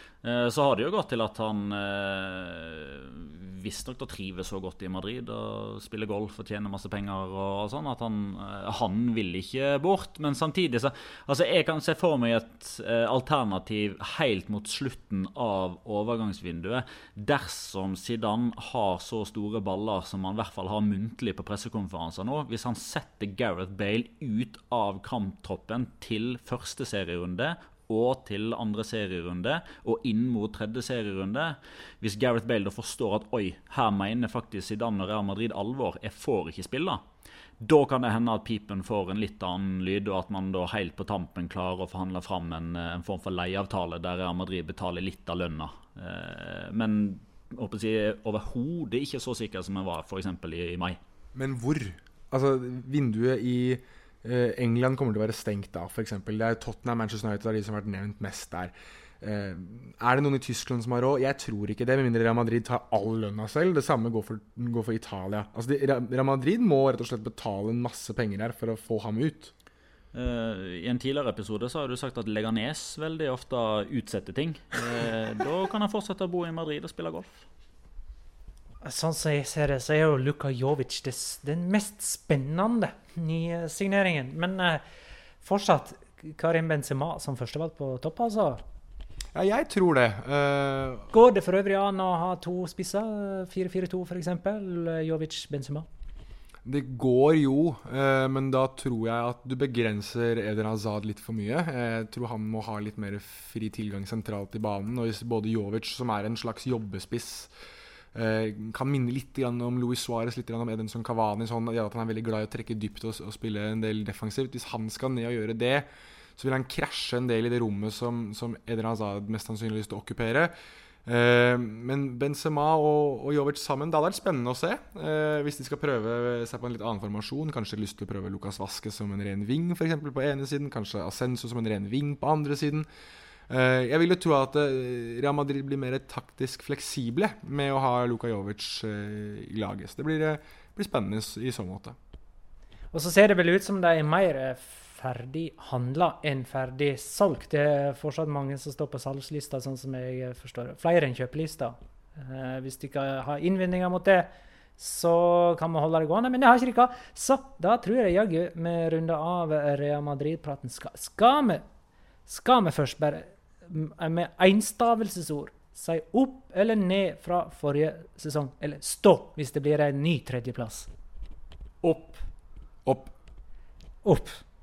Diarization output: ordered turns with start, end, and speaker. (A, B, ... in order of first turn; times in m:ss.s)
0:00.2-0:37.0 A
0:37.6-0:51.0 A
0:51.3-1:09.5 B
1:10.1-1:17.4 A
1:18.8-1:24.8 C
1:25.4-1:28.6 C
1:29.3-1:31.1 B
1:31.1-1:35.9 C
1:36.6-1:47.5 B
1:48.1-2:00.5 B
2:01.0-2:12.8 B
2:13.5-2:22.0 B
2:22.9-2:41.6 C
2:42.3-2:50.9 C
2:51.8-2:52.2 A
2:52.8-2:53.1 B
2:54.0-2:54.4 C